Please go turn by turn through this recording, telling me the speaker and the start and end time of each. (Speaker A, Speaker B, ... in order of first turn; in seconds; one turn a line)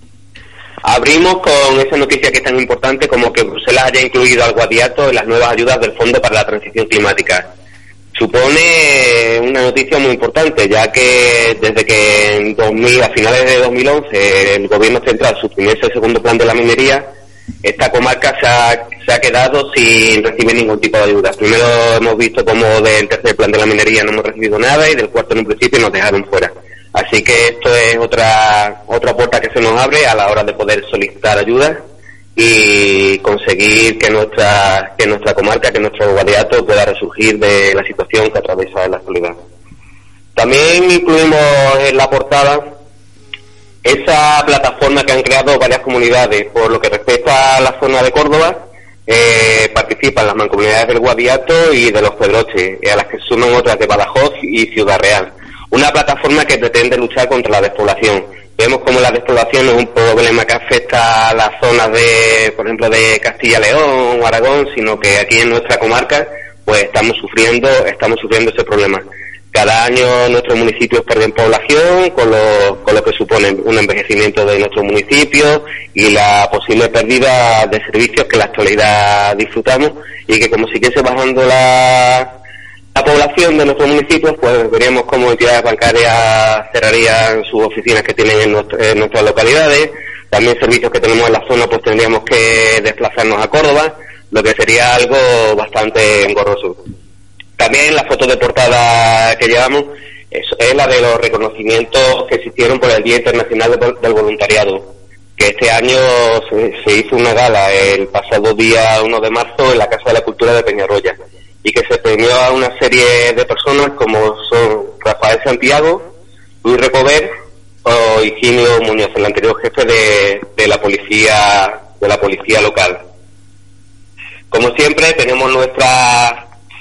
Speaker A: 0.8-7.5
Speaker A: 8.1-17.1
Speaker A: 17.6-31.8
Speaker A: 32.4-39.4
Speaker A: 40.4-42.7
Speaker A: 43.8-82.3
Speaker A: 82.9-96.8
Speaker A: 97.6-116.1
Speaker A: 116.6-117.3
Speaker A: 117.8-123.0
Speaker A: 124.5-126.5